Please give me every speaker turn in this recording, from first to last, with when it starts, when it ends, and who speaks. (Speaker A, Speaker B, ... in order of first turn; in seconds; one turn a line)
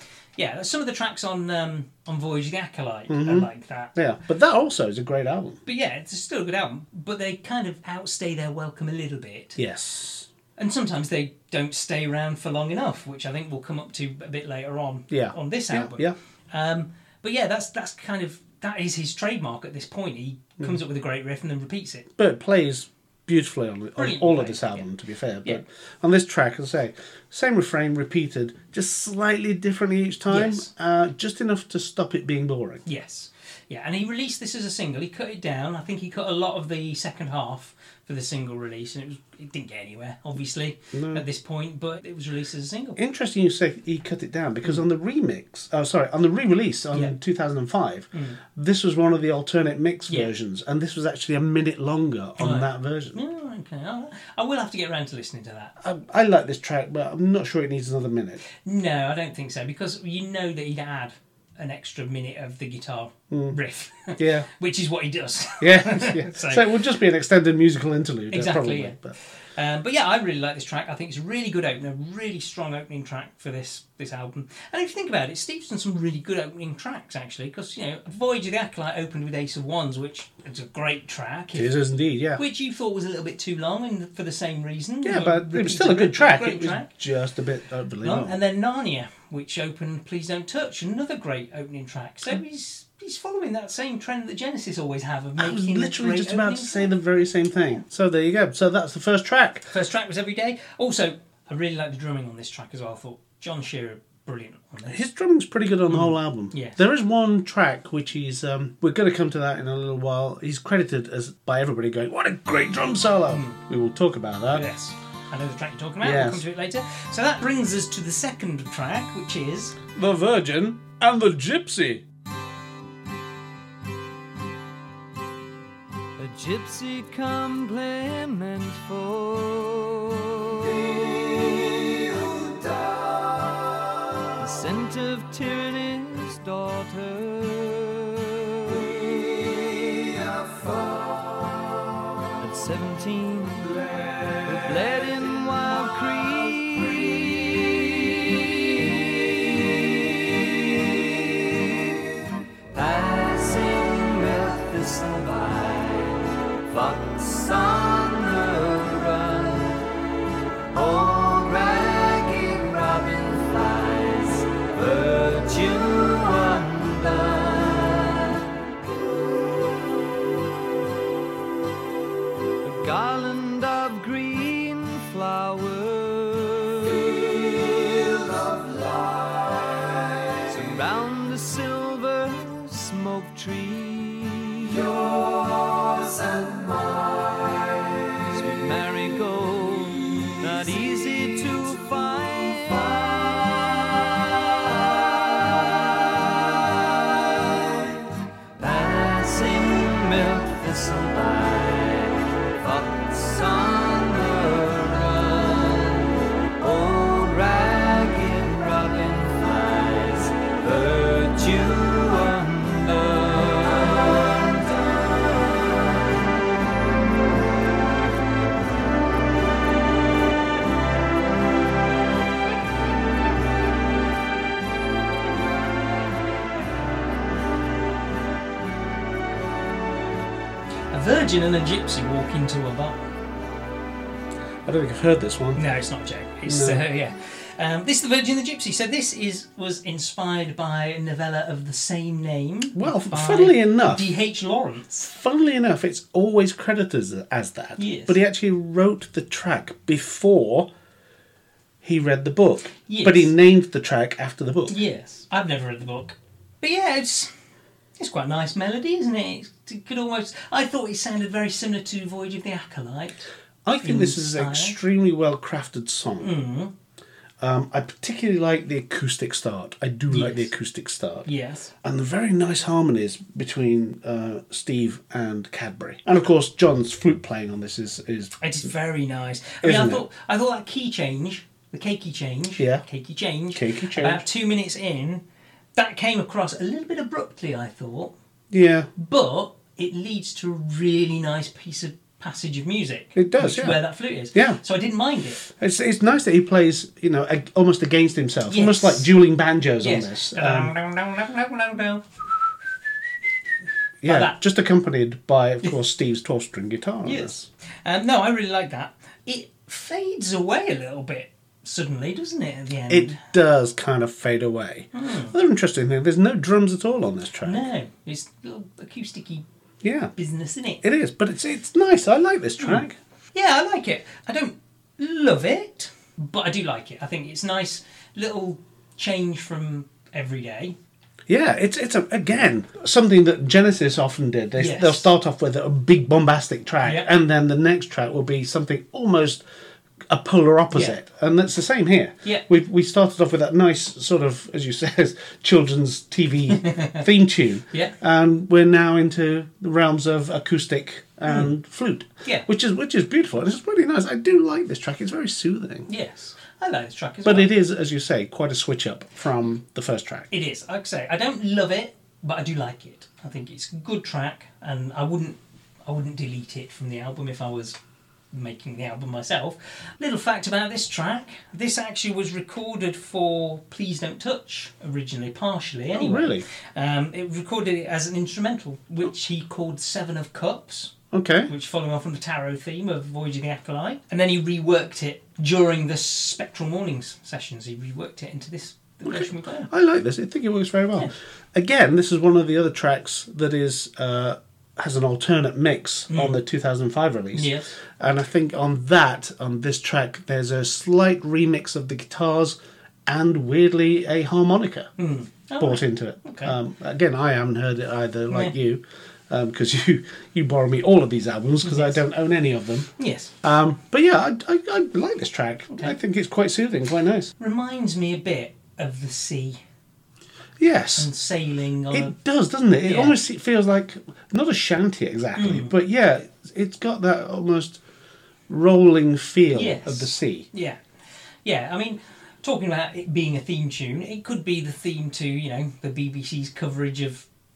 Speaker A: 0.4-3.9
Speaker B: 3.1-5.6
Speaker A: 5.7-9.6
Speaker B: 9.6-10.3
Speaker A: 10.6-22.1
Speaker B: 15.1-16.1
Speaker B: 22.2-32.8
Speaker A: 24.0-24.9
Speaker A: 30.3-30.7
Speaker A: 32.9-43.0
Speaker B: 40.9-41.2
Speaker B: 43.0-53.2
Speaker A: 48.1-48.4
Speaker A: 52.4-55.8
Speaker B: 55.8-58.4
Speaker A: 58.6-66.7
Speaker B: 63.3-63.6
Speaker B: 64.2-64.5
Speaker B: 65.6-69.1
Speaker A: 68.3-81.7
Speaker B: 81.5-82.4
Speaker A: 82.4-86.9
Speaker B: 85.0-88.4
Speaker A: 88.0-96.9
Speaker B: 95.4-99.7
Speaker A: 99.7-105.0
Speaker B: 104.9-114.7
Speaker A: 105.9-106.8
Speaker A: 113.3-113.6
Speaker A: 114.5-119.8
Speaker B: 116.0-116.4
Speaker B: 119.9-122.0
Speaker C: 126.2-133.0
Speaker C: 134.4-140.8
Speaker C: 142.4-152.1
Speaker C: 152.7-159.8
Speaker C: 160.7-168.6
Speaker C: 172.6-179.8
Speaker C: 180.4-187.5
Speaker C: 188.2-215.7
Speaker A: 230.9-233.0
Speaker B: 234.7-235.6
Speaker A: 235.6-245.1
Speaker B: 236.5-236.8
Speaker B: 242.7-244.1
Speaker B: 245.1-250.7
Speaker A: 247.8-248.2
Speaker B: 251.8-254.8
Speaker A: 252.9-253.3
Speaker A: 254.7-257.3
Speaker A: 258.0-263.3
Speaker B: 263.6-266.3
Speaker A: 263.8-264.8
Speaker A: 266.2-266.7
Speaker B: 267.4-271.3
Speaker A: 270.1-270.5
Speaker A: 271.3-271.7
Speaker B: 271.8-278.4
Speaker A: 278.4-285.2
Speaker B: 279.6-280.0
Speaker B: 282.6-282.8
Speaker B: 283.5-284.2
Speaker A: 285.8-288.1
Speaker B: 288.5-288.9
Speaker A: 289.0-295.4
Speaker B: 293.1-293.8
Speaker B: 294.3-294.6
Speaker B: 295.5-300.7
Speaker A: 298.5-299.1
Speaker A: 299.8-302.1
Speaker B: 304.0-307.5
Speaker A: 304.1-304.4
Speaker A: 307.0-313.2
Speaker B: 312.9-317.7
Speaker A: 314.9-315.3
Speaker A: 317.4-319.4
Speaker B: 319.8-320.1
Speaker A: 320.2-320.8
Speaker B: 320.8-323.0
Speaker A: 322.6-330.8
Speaker B: 331.3-339.4
Speaker A: 334.6-335.1
Speaker A: 336.8-337.1
Speaker B: 340.1-355.9
Speaker A: 340.7-341.0
Speaker A: 346.6-347.1
Speaker A: 355.9-357.5
Speaker B: 357.2-360.3
Speaker A: 360.3-367.8
Speaker A: 368.3-380.9
Speaker B: 375.9-376.5
Speaker B: 381.1-381.5
Speaker A: 381.5-389.7
Speaker B: 389.1-404.9
Speaker A: 396.1-396.4
Speaker A: 397.3-397.7
Speaker A: 405.0-406.5
Speaker B: 405.6-412.9
Speaker A: 411.6-412.0
Speaker A: 413.0-413.3
Speaker B: 413.4-417.3
Speaker A: 417.4-419.6
Speaker B: 420.6-421.1
Speaker A: 421.0-422.1
Speaker B: 421.9-427.8
Speaker A: 422.8-423.1
Speaker A: 425.4-425.7
Speaker B: 428.5-430.5
Speaker A: 429.5-430.8
Speaker A: 431.4-437.3